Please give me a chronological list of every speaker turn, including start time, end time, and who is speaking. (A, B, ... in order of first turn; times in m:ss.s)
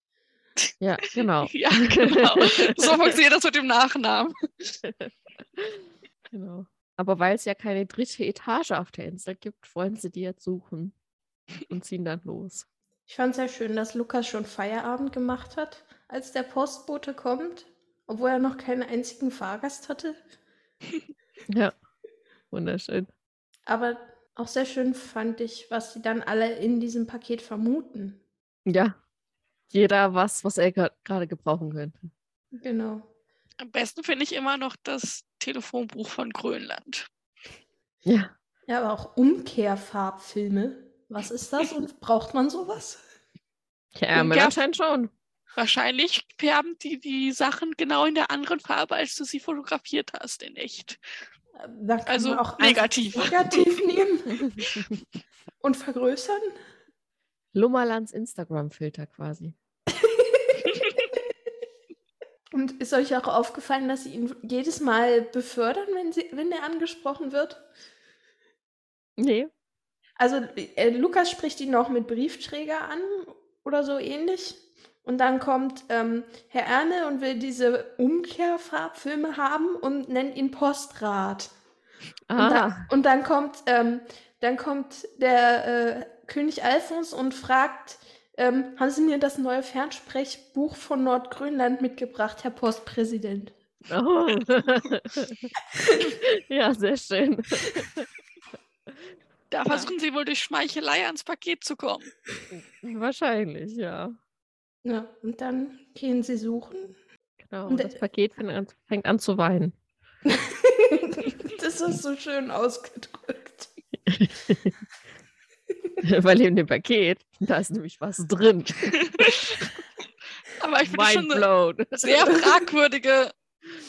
0:00.8-0:03.2 A
0:01.5-0:04.8 B
0:04.8-0:11.0 A
0:11.7-0:12.7 A
0:13.1-0:20.2 C
0:21.5-0:21.7 A
0:22.5-0:23.1 A
0:23.7-0:28.2 C
0:28.7-0:29.0 A
0:29.7-0:32.1 A
0:32.6-0:33.1 C
0:33.6-0:37.1 B
0:38.0-0:38.3 A
0:38.7-0:43.0 C
0:44.0-0:45.1 A
0:44.1-0:44.6 B
0:45.5-0:51.0 B
0:51.6-0:54.5 C
0:52.1-0:53.7 B
0:54.3-0:55.0 A
0:55.6-0:56.5 C
0:57.5-0:59.6 A
1:00.0-1:00.8 C
1:02.5-1:07.6 C
1:09.2-1:09.5 A
1:10.2-1:21.5 C
1:22.3-1:22.9 A
1:22.4-1:33.5 C
1:33.9-1:35.5 A
1:36.2-1:38.1 A
1:39.5-1:42.1 B
1:39.7-1:39.9 A
1:42.5-1:44.2 A
1:44.8-1:47.0 C
1:47.4-1:49.8 A
1:47.7-1:48.0 C
1:50.3-1:53.7 C
1:54.1-1:54.8 A
1:56.0-1:59.4 A
1:58.9-1:59.7 B
2:00.5-2:03.3 B
2:00.8-2:02.5 A